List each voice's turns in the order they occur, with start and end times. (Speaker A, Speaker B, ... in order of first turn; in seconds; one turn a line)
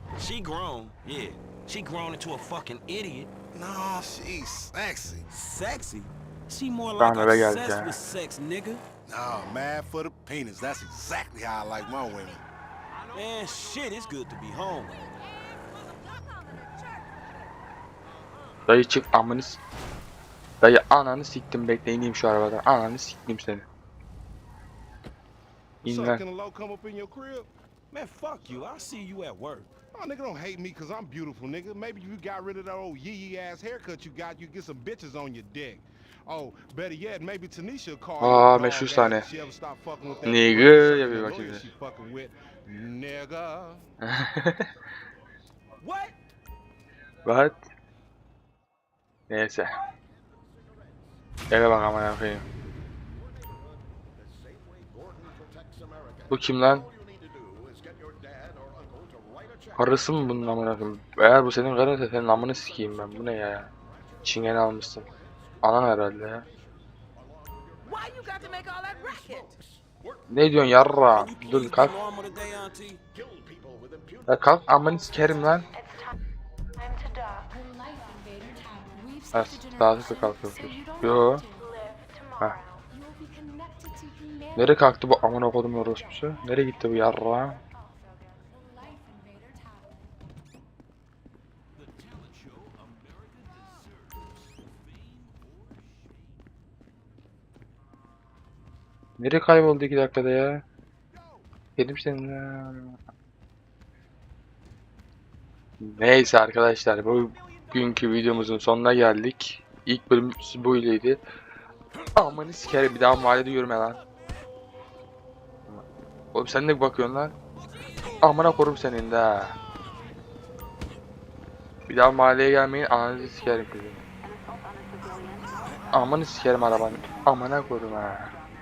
Speaker A: 0.2-3.3
Speaker B: 3.5-5.3
Speaker A: 5.3-8.8
Speaker C: 7.0-8.0
Speaker B: 9.1-12.4
Speaker A: 13.1-15.0
Speaker C: 18.7-19.6
Speaker C: 20.6-23.6
Speaker C: 25.8-26.2
Speaker B: 25.8-27.5
Speaker A: 27.9-29.7
Speaker B: 29.9-43.9
Speaker C: 38.2-39.3
Speaker C: 40.2-41.7
Speaker C: 44.0-44.7
Speaker A: 45.8-46.1
Speaker C: 47.2-47.6
Speaker C: 49.3-49.7
Speaker C: 51.5-52.4
Speaker C: 56.3-56.9
Speaker C: 59.8-63.7
Speaker C: 64.2-65.1
Speaker C: 65.6-66.5
Speaker A: 68.2-69.5
Speaker C: 70.3-71.9
Speaker A: 71.1-73.0
Speaker C: 74.3-75.7
Speaker C: 79.3-81.4
Speaker C: 84.6-87.6
Speaker A: 91.8-93.9
Speaker C: 99.2-100.6
Speaker C: 101.8-103.0
Speaker C: 105.8-111.2
Speaker C: 112.1-114.0
Speaker C: 116.3-117.3
Speaker C: 118.2-119.5
Speaker C: 121.9-124.0
Speaker C: 125.9-128.3